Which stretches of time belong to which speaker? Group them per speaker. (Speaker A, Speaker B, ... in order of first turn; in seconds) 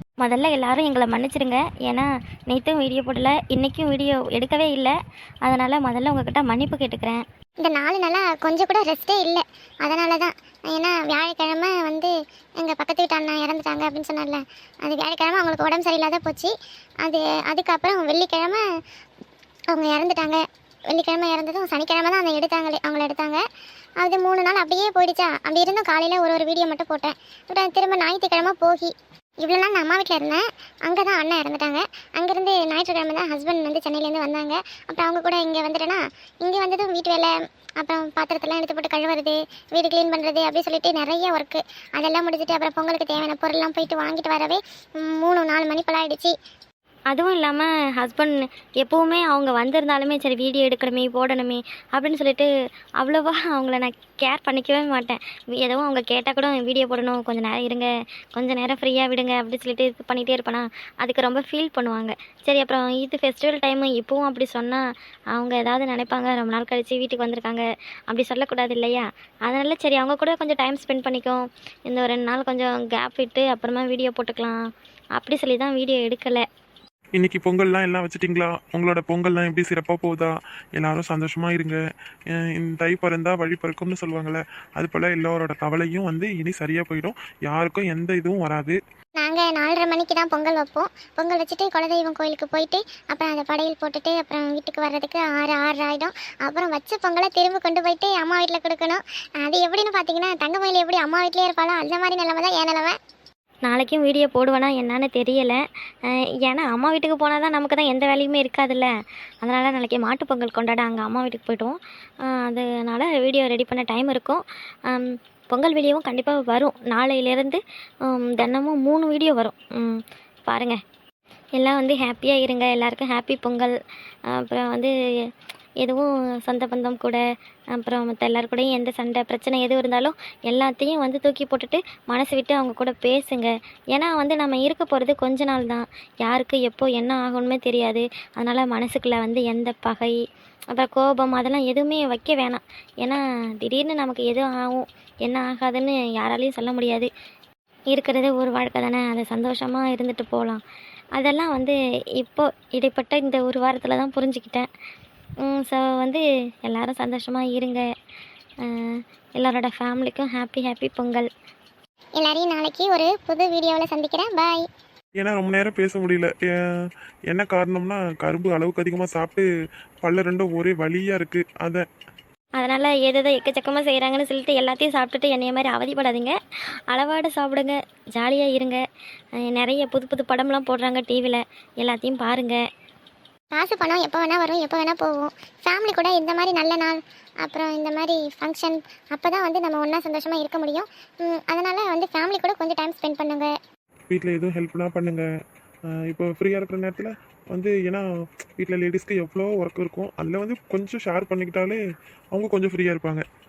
Speaker A: 0.2-7.2, 47.1-52.5, 53.0-74.6, 75.2-76.4, 103.7-105.6, 106.4-108.9, 109.4-120.8, 121.6-123.7, 124.3-124.9, 125.8-127.2, 127.7-140.1, 140.7-147.1, 147.9-150.6, 151.2-154.7, 155.4-157.8, 158.6-161.3, 172.6-176.4, 176.9-178.8, 179.5-182.6
Speaker B: 7.6-16.5, 17.0-18.6, 19.7-23.4, 24.0-28.9, 29.4-46.4, 89.2-103.0, 162.2-164.7, 183.5-193.5
Speaker C: 77.2-81.8, 82.3-88.8, 165.2-169.5, 170.0-171.8, 194.1-195.2, 195.9-198.0, 198.6-201.8, 202.3-203.2